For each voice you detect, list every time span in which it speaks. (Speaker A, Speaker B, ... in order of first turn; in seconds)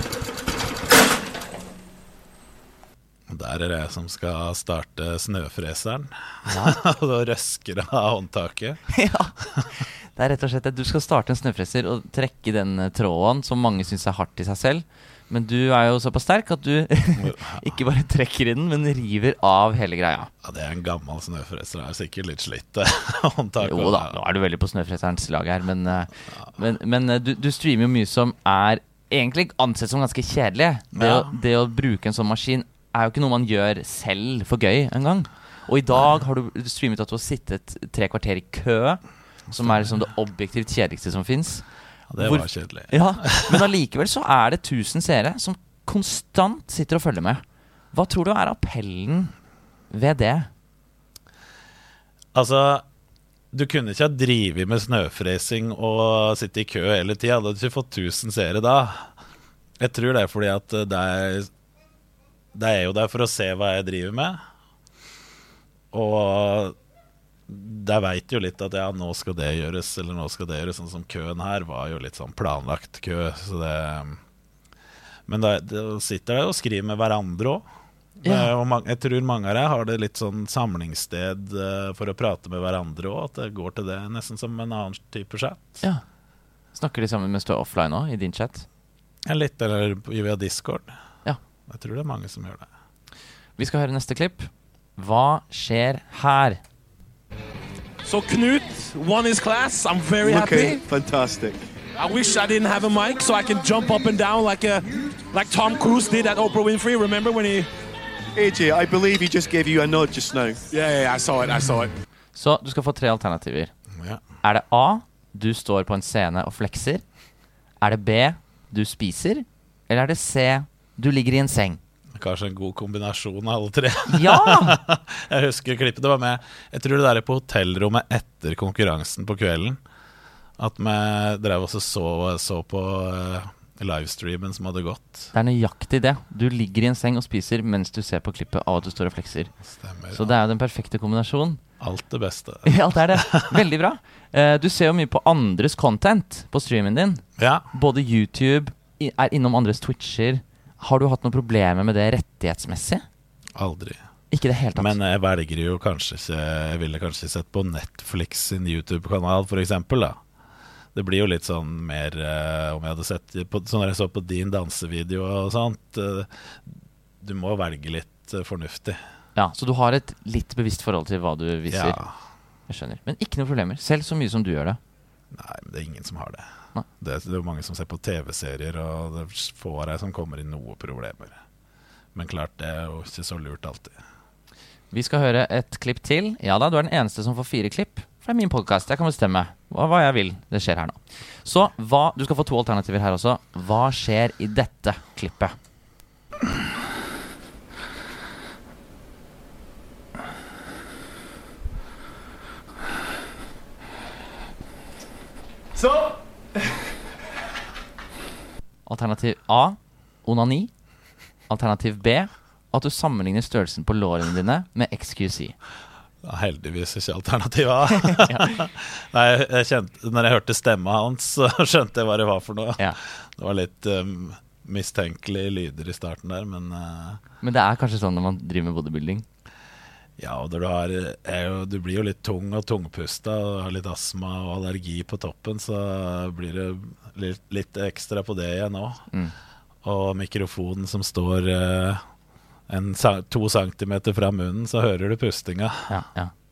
Speaker A: 3.3-8.8, 17.2-17.7, 20.4-24.2, 30.9-31.3, 39.5-39.9, 42.1-43.7, 52.3-52.9, 53.5-59.1, 59.8-61.5, 62.5-64.4, 65.9-66.8, 67.5-74.2, 75.3-77.7, 78.2-85.8, 89.3-91.0, 91.7-92.7, 114.0-114.2, 122.2-129.8, 130.6-135.3, 139.7-140.3, 141.8-143.6, 147.4-147.7, 153.6-154.0, 154.8-160.2, 160.9-169.0, 171.7-172.1, 175.3-176.5, 177.0-181.4, 182.1-184.0, 216.2-227.2, 230.2-239.1, 239.8-242.0, 242.7-245.9
Speaker B: 6.5-6.8, 8.9-20.3, 23.6-39.0, 39.5-41.7, 42.2-49.3, 49.9-50.5, 78.2-78.5, 86.7-88.7, 93.6-96.6, 112.3-113.7, 114.4-117.0, 117.8-121.8, 124.1-124.8, 135.3-139.5, 140.1-141.6, 142.7-153.1, 154.3-155.0, 169.4-172.0, 172.7-174.8, 184.9-195.5, 208.9-210.7, 211.5-215.6, 218.0-218.5, 227.4-229.2, 245.9-246.3
Speaker C: 98.0-100.8, 102.0-107.7, 110.7-111.9
Speaker D: 100.2-101.6, 108.4-110.6